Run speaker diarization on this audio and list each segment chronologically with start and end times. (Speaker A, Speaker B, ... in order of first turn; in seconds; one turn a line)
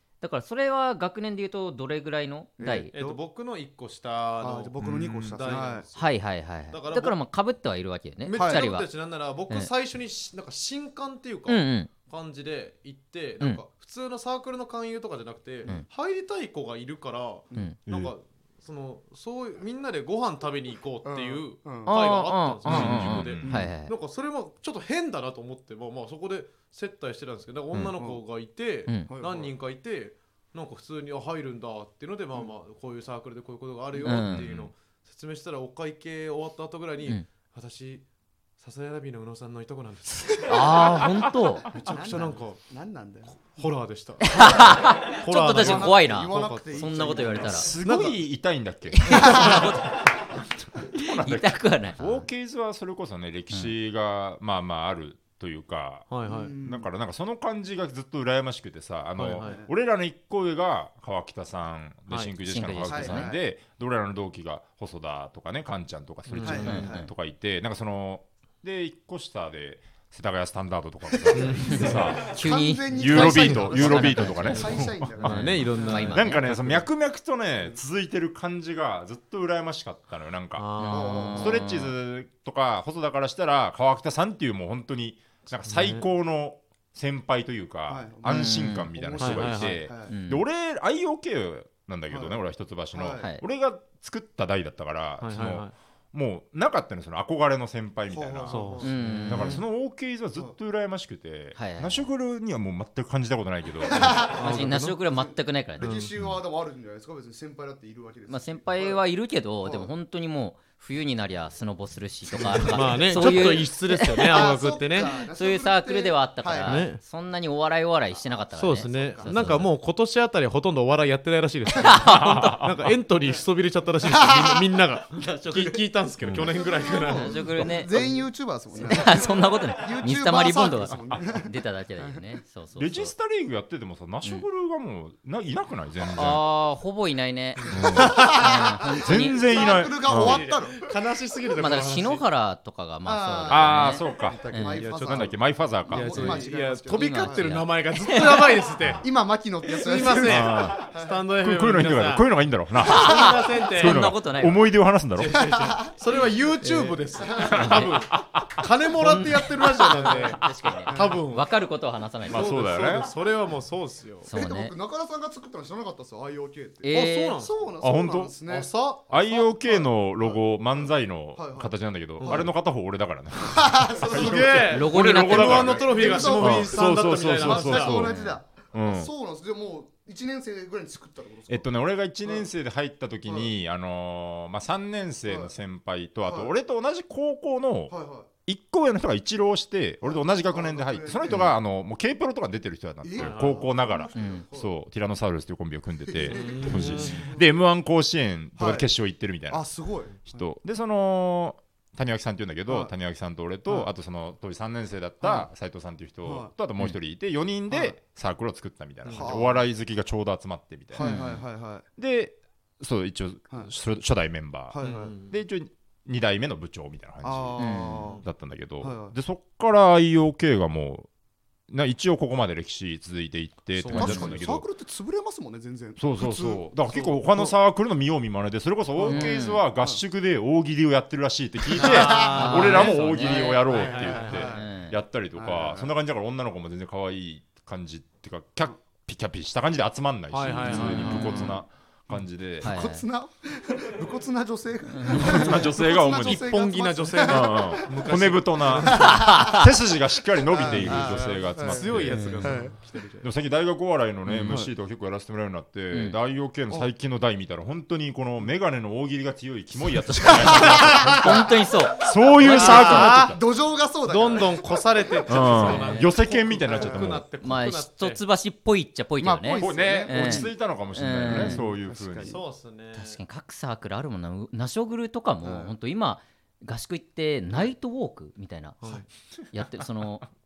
Speaker A: 0.2-2.9
Speaker B: 2.6-3.2
Speaker C: 2.9-6.2
Speaker B: 4.4-5.9
Speaker D: 4.8-5.3
Speaker A: 6.0-8.9
Speaker C: 6.7-7.2
Speaker C: 8.2-38.0
Speaker B: 8.3-8.7
Speaker A: 11.5-11.9
Speaker D: 17.9-18.1
Speaker B: 21.1-21.9
Speaker A: 21.9-23.9
Speaker D: 22.7-23.5
Speaker B: 23.4-23.7
Speaker B: 29.1-29.5
Speaker A: 34.0-34.5
Speaker D: 34.2-34.7
Speaker C: 38.6-40.9
Speaker A: 40.5-41.6
Speaker C: 41.7-42.6
Speaker B: 41.7-43.4
Speaker C: 43.3-48.2
Speaker A: 44.2-47.7
Speaker B: 45.4-47.8
Speaker D: 47.4-72.4
Speaker A: 48.9-50.1
Speaker B: 49.1-49.6
Speaker C: 49.1-49.7
Speaker A: 51.0-52.3
Speaker C: 56.1-56.5
Speaker B: 56.3-56.9
Speaker C: 59.2-59.6
Speaker B: 59.4-59.7
Speaker A: 62.4-63.3
Speaker B: 62.9-63.4
Speaker C: 66.3-66.9
Speaker B: 66.4-67.1
Speaker A: 66.6-67.1
Speaker B: 71.2-76.2
Speaker C: 71.3-72.1
Speaker A: 71.6-76.4
Speaker D: 72.9-80.7
Speaker C: 75.2-76.9
Speaker C: 80.6-81.6
Speaker A: 80.8-81.9
Speaker B: 80.9-81.6
Speaker D: 81.4-104.3
Speaker C: 85.7-86.1
Speaker B: 87.9-90.1
Speaker A: 88.3-88.9
Speaker C: 89.2-89.8
Speaker A: 90.1-90.4
Speaker B: 92.1-92.4
Speaker B: 92.9-93.3
Speaker C: 95.2-95.7
Speaker B: 98.1-99.0
Speaker C: 98.5-99.6
Speaker A: 98.8-99.6
Speaker A: 101.5-102.1
Speaker B: 103.9-109.0
Speaker C: 104.3-105.0
Speaker A: 104.3-106.0
Speaker C: 105.8-106.1
Speaker A: 108.3-114.5
Speaker B: 109.6-109.9
Speaker B: 112.3-113.5
Speaker C: 112.7-115.2
Speaker B: 114.2-116.9
Speaker A: 115.1-119.7
Speaker C: 116.6-117.0
Speaker B: 118.2-119.4
Speaker C: 118.6-128.2
Speaker A: 121.8-122.6
Speaker D: 122.0-122.9
Speaker B: 124.1-124.7
Speaker B: 125.5-125.8
Speaker D: 126.2-126.6
Speaker B: 126.5-132.2
Speaker A: 127.1-127.9
Speaker A: 128.8-133.1
Speaker D: 132.8-136.4
Speaker A: 136.1-139.8
Speaker B: 137.7-140.9
Speaker D: 137.7-138.4
Speaker D: 139.0-140.4
Speaker C: 140.1-142.2
Speaker A: 141.6-144.8
Speaker B: 143.1-147.6
Speaker D: 143.5-146.4
Speaker C: 144.8-145.4
Speaker C: 145.9-149.1
Speaker A: 146.9-148.5
Speaker B: 148.9-151.2
Speaker C: 149.7-152.3
Speaker D: 150.2-150.9
Speaker D: 151.4-155.5
Speaker C: 152.8-154.0
Speaker A: 152.8-154.7
Speaker C: 155.2-161.5
Speaker B: 155.3-155.9
Speaker A: 156.6-158.0
Speaker B: 157.2-157.7
Speaker D: 157.5-158.6
Speaker A: 159.0-162.5
Speaker B: 160.9-161.2
Speaker D: 162.3-163.1
Speaker C: 162.3-164.3
Speaker A: 164.2-164.7
Speaker B: 164.3-172.5
Speaker A: 166.8-167.4
Speaker C: 166.9-167.6
Speaker D: 167.8-168.3
Speaker C: 168.5-169.2
Speaker D: 169.1-178.2
Speaker C: 172.2-172.5
Speaker B: 173.4-174.8
Speaker C: 174.0-178.1
Speaker A: 174.7-176.0
Speaker B: 175.6-181.7
Speaker A: 177.9-178.4
Speaker D: 178.7-179.1
Speaker D: 181.5-199.7
Speaker B: 183.3-183.5
Speaker B: 185.3-185.5
Speaker B: 186.2-186.5
Speaker B: 187.9-188.3
Speaker B: 190.0-191.5
Speaker B: 193.0-194.7
Speaker C: 193.2-193.6
Speaker A: 194.2-194.5
Speaker B: 196.1-197.5
Speaker C: 196.3-197.3
Speaker B: 198.6-198.9
Speaker B: 199.5-200.4
Speaker D: 200.2-211.2
Speaker B: 202.7-202.9
Speaker B: 205.2-205.5
Speaker B: 206.2-206.5
Speaker B: 207.7-207.9
Speaker C: 209.0-209.4
Speaker B: 209.1-209.7
Speaker B: 210.9-211.9
Speaker A: 211.0-211.4
Speaker D: 212.0-221.1
Speaker B: 214.7-215.1
Speaker C: 214.8-215.4
Speaker B: 217.2-218.2
Speaker A: 217.6-218.1
Speaker C: 218.0-218.3
Speaker B: 218.8-219.2
Speaker D: 221.7-224.7
Speaker C: 223.7-224.4
Speaker B: 223.9-227.6
Speaker D: 226.0-242.7
Speaker B: 229.0-230.0
Speaker A: 229.0-229.6
Speaker B: 231.8-232.9
Speaker C: 231.8-234.5
Speaker A: 231.8-235.0
Speaker B: 233.9-234.7
Speaker B: 235.3-235.9
Speaker C: 240.3-241.5
Speaker A: 240.6-241.6
Speaker A: 242.6-243.0
Speaker B: 242.6-249.6
Speaker A: 244.9-245.6
Speaker D: 245.2-246.5
Speaker C: 246.1-249.2
Speaker D: 247.3-252.6
Speaker A: 249.0-249.7
Speaker B: 250.5-252.8
Speaker C: 250.6-253.3
Speaker A: 252.1-252.6
Speaker D: 253.2-261.5
Speaker A: 254.3-254.6
Speaker A: 255.9-256.2
Speaker A: 260.0-263.1
Speaker B: 260.3-261.5
Speaker D: 262.0-263.4
Speaker C: 262.4-263.4
Speaker B: 262.4-265.9
Speaker C: 264.1-268.2
Speaker D: 265.3-267.2
Speaker A: 265.6-266.1
Speaker B: 266.7-267.2
Speaker A: 267.4-271.6
Speaker B: 269.2-270.5
Speaker D: 269.6-272.4
Speaker B: 271.3-272.4
Speaker C: 272.2-273.2
Speaker A: 272.9-280.3
Speaker B: 275.4-275.7